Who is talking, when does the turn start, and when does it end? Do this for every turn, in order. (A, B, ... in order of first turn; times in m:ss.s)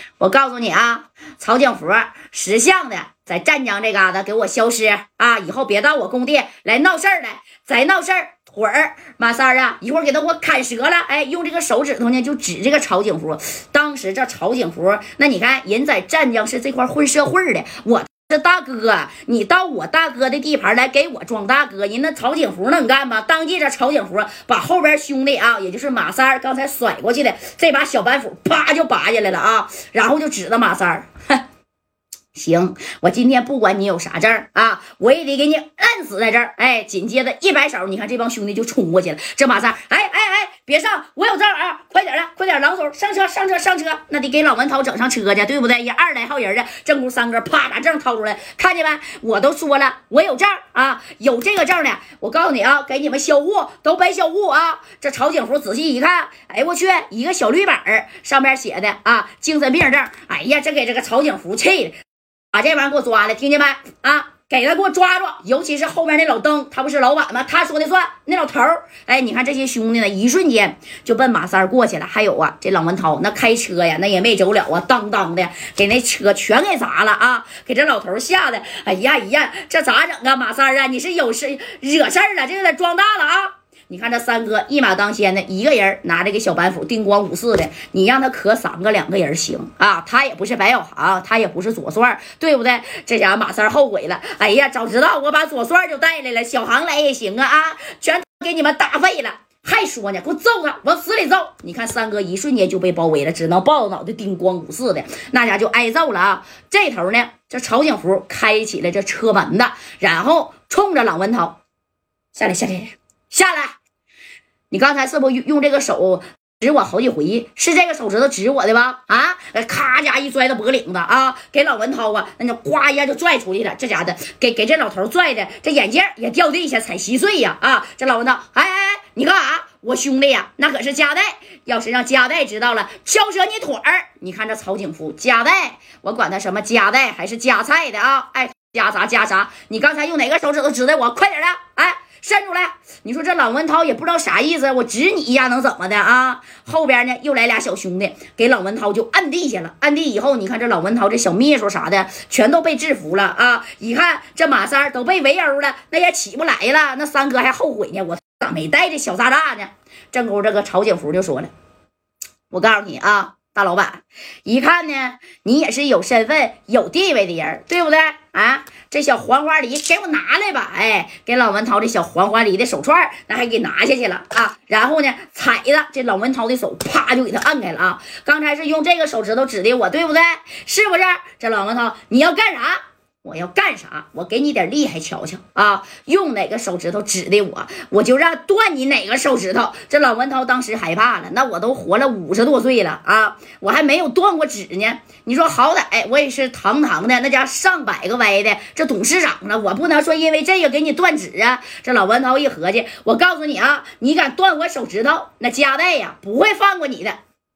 0:00.2-0:31.4 A
0:32.3-1:02.0 A
1:02.5-1:51.6 A
1:52.3-1:53.8 A
1:54.7-2:41.5 A
2:42.5-3:27.2 A